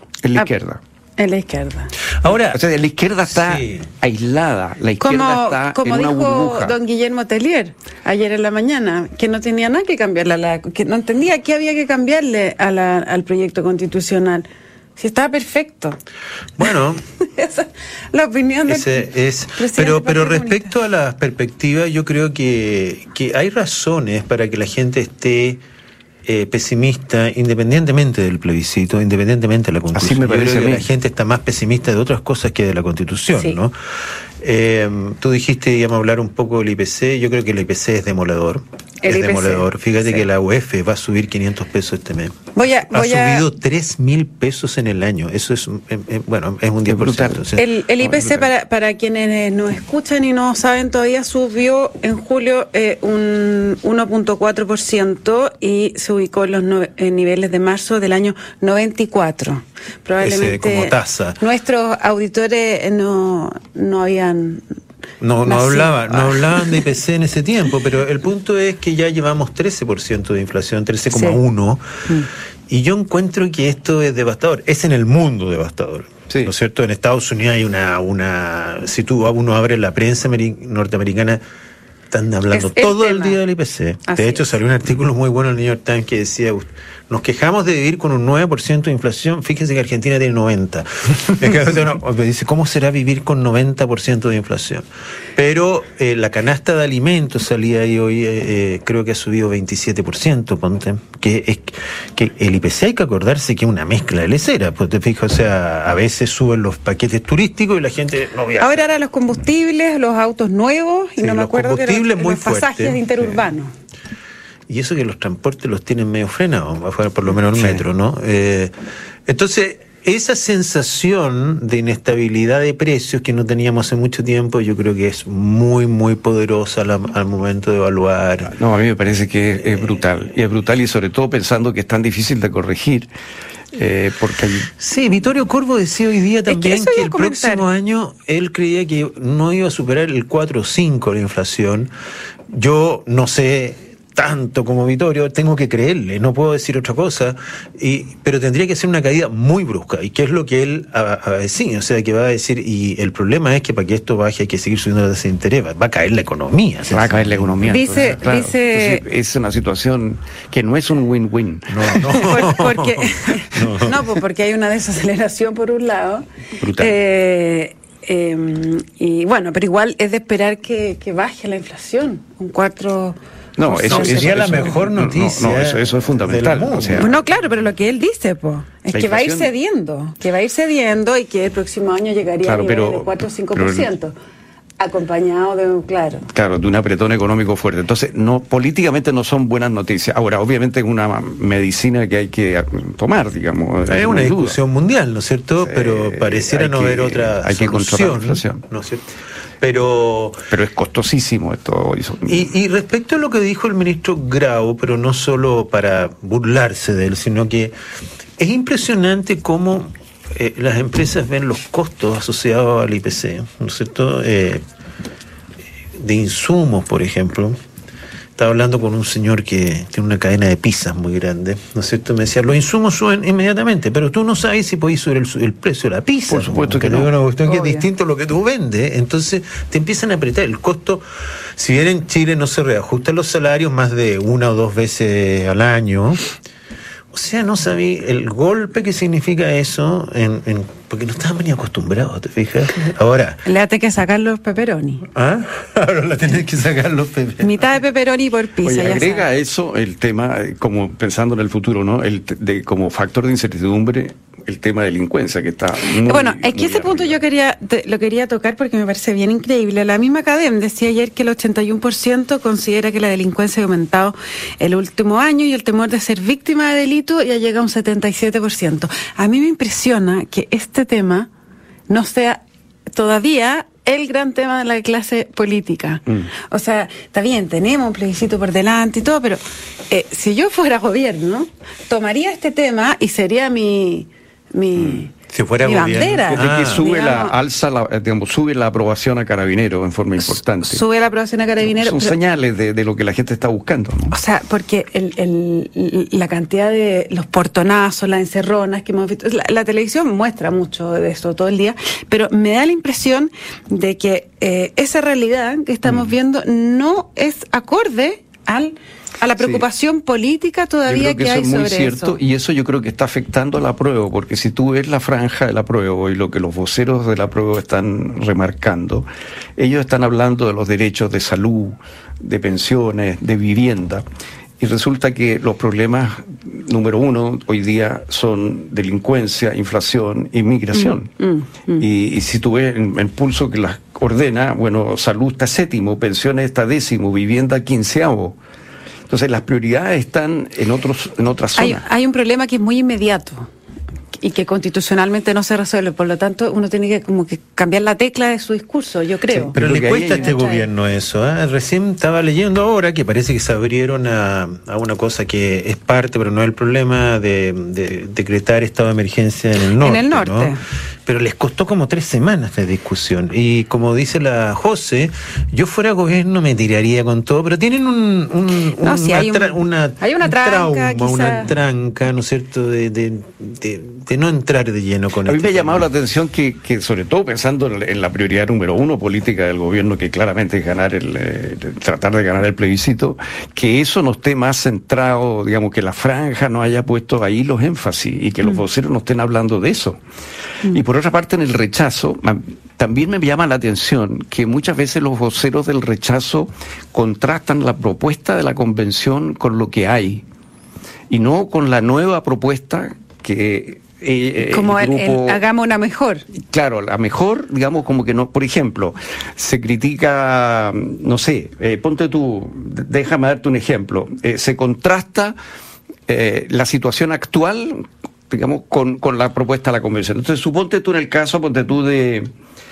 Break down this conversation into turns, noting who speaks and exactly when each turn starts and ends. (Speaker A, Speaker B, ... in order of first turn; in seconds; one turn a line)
Speaker A: 0.2-0.8
Speaker B: 1.2-1.9
Speaker C: 2.2-2.6
Speaker A: 2.5-6.8
Speaker C: 3.3-3.9
Speaker B: 5.0-16.0
Speaker C: 16.6-17.0
Speaker B: 17.2-20.7
Speaker C: 18.7-25.6
Speaker C: 26.2-33.8
Speaker A: 29.9-30.9
Speaker C: 34.4-42.4
Speaker B: 39.0-39.7
Speaker B: 42.5-43.5
Speaker C: 42.9-47.6
Speaker A: 46.9-48.5
Speaker B: 47.6-64.6
Speaker C: 60.2-61.4
Speaker C: 65.2-72.0
Speaker B: 65.5-66.8
Speaker B: 71.1-71.4
Speaker C: 72.7-81.4
Speaker C: 82.1-94.8
Speaker B: 82.5-83.4
Speaker B: 84.1-84.5
Speaker C: 95.3-108.8
Speaker B: 108.6-113.7
Speaker C: 111.2-113.0
Speaker C: 114.7-118.7
Speaker A: 117.5-117.8
Speaker C: 119.3-128.5
Speaker A: 128.5-133.1
Speaker A: 133.7-134.7
Speaker C: 134.7-141.9
Speaker B: 136.5-137.7
Speaker C: 142.5-158.2
Speaker A: 156.9-162.4
Speaker B: 157.7-159.0
Speaker C: 161.7-164.0
Speaker B: 162.1-174.7
Speaker A: 166.6-166.9
Speaker A: 173.6-177.1
Speaker C: 173.9-177.3
Speaker B: 177.0-184.2
Speaker A: 178.9-179.5
Speaker A: 182.4-183.9
Speaker B: 184.8-186.3
Speaker A: 186.3-194.6
Speaker C: 193.9-199.1
Speaker A: 195.6-198.6
Speaker C: 199.6-200.4
Speaker A: 200.5-202.5
Speaker C: 202.3-207.7
Speaker C: 208.4-214.6
Speaker C: 216.0-217.6
Speaker C: 218.4-236.3
Speaker A: 226.3-227.1
Speaker B: 227.4-227.9
Speaker C: 237.1-243.4
Speaker B: 243.4-245.1
Speaker C: 245.1-247.6
Speaker B: 247.4-249.2
Speaker A: 248.6-257.2
Speaker B: 256.0-271.3
Speaker B: 271.9-272.4
Speaker B: 272.9-285.1
Speaker A: 284.8-285.0
Speaker C: 285.3-286.8
Speaker B: 285.6-287.4
Speaker A: 286.3-290.8
Speaker B: 290.6-292.1
Speaker A: 291.6-294.1
Speaker B: 294.1-312.2
Speaker A: 309.4-309.6
Speaker A: 310.9-324.0
Speaker A: 324.6-331.1
Speaker B: 330.7-331.9
Speaker A: 331.8-338.4
Speaker A: 339.1-341.8
Speaker B: 341.6-343.5
Speaker B: 344.2-349.6
Speaker A: 349.3-350.3
Speaker C: 349.6-360.6
Speaker B: 350.2-350.7
Speaker B: 359.8-360.6
Speaker C: 361.1-375.9
Speaker B: 368.8-371.5
Speaker A: 375.2-390.0
Speaker A: 390.7-400.2
Speaker A: 401.1-405.4
Speaker B: 404.5-406.2
Speaker A: 406.4-415.4
Speaker A: 416.1-422.3